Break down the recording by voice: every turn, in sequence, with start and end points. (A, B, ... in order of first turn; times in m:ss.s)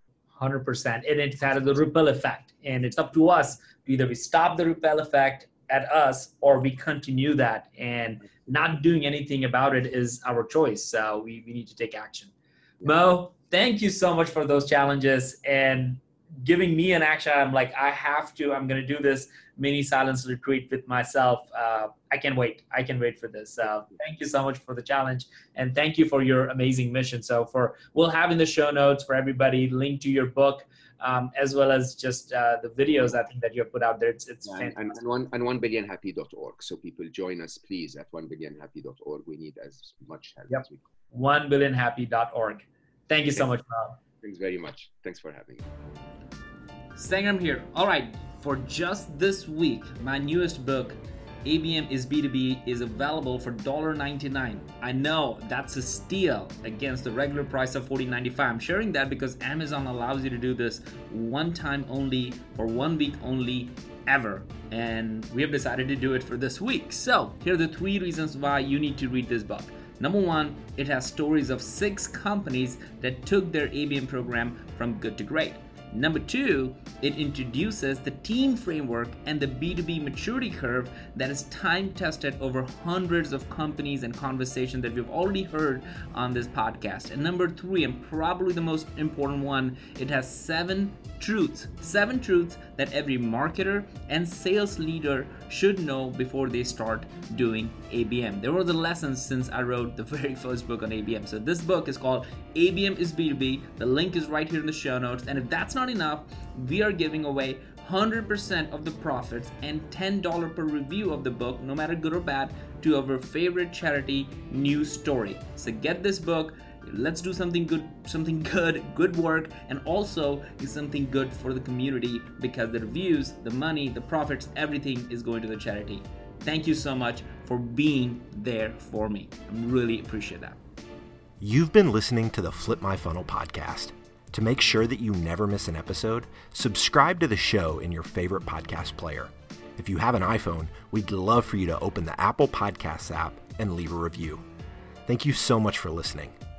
0:00.4-0:12.3 A
0:12.8-0:35.0 A
0:34.4-0:40.8 B
0:40.5-0:44.0 A
0:44.2-0:45.6 B
0:47.0-2:10.6 A
2:11.4-2:24.4 C
2:25.0-2:26.3 C